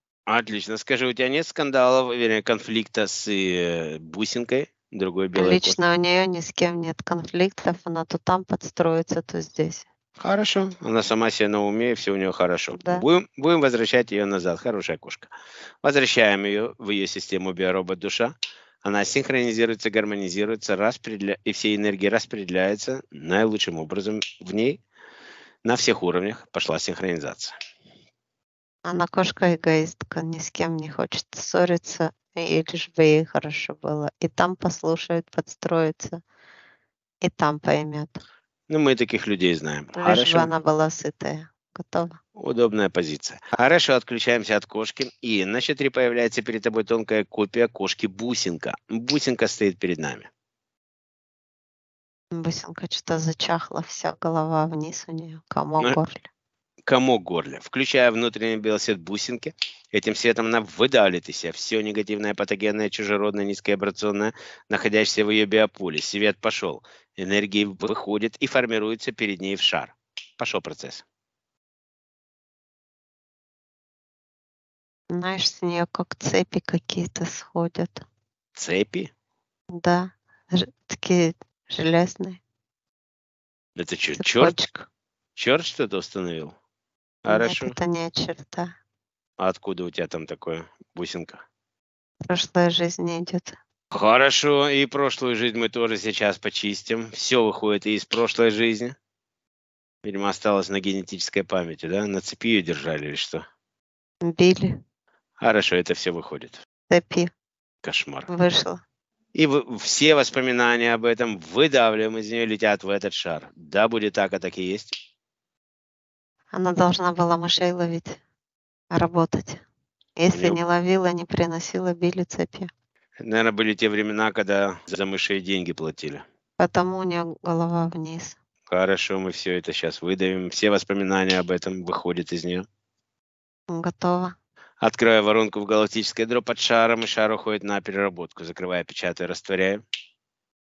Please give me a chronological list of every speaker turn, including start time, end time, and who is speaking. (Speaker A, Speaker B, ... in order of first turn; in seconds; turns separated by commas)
Speaker A: 0.3-5.8, Speaker B: 5.3-9.8, Speaker A: 10.2-15.3, Speaker B: 12.7-13.0, Speaker A: 15.8-24.8, Speaker A: 25.6-27.5, Speaker B: 28.8-36.2, Speaker B: 37.2-38.2, Speaker A: 38.7-40.5, Speaker B: 39.9-42.2, Speaker A: 42.4-50.3, Speaker B: 52.3-56.2, Speaker A: 56.9-71.0, Speaker B: 75.1-78.0, Speaker A: 78.5-79.1, Speaker B: 79.7-82.4, Speaker A: 83.8-84.6, Speaker B: 84.2-84.9, Speaker A: 85.3-86.5, Speaker A: 87.2-87.8, Speaker B: 87.3-88.7, Speaker A: 89.4-91.4, Speaker B: 92.2-93.5, Speaker A: 93.9-98.9, Speaker A: 100.0-103.4, Speaker B: 104.2-104.8, Speaker A: 105.4-106.6, Speaker B: 106.9-107.3, Speaker A: 107.8-108.3, Speaker B: 108.3-108.8, Speaker A: 109.3-114.9, Speaker B: 116.5-118.2, Speaker B: 118.9-119.6, Speaker B: 120.2-122.7, Speaker A: 120.3-120.6, Speaker A: 123.2-126.2, Speaker B: 126.6-128.4, Speaker A: 128.7-132.6, Speaker B: 133.7-134.3, Speaker A: 134.8-139.8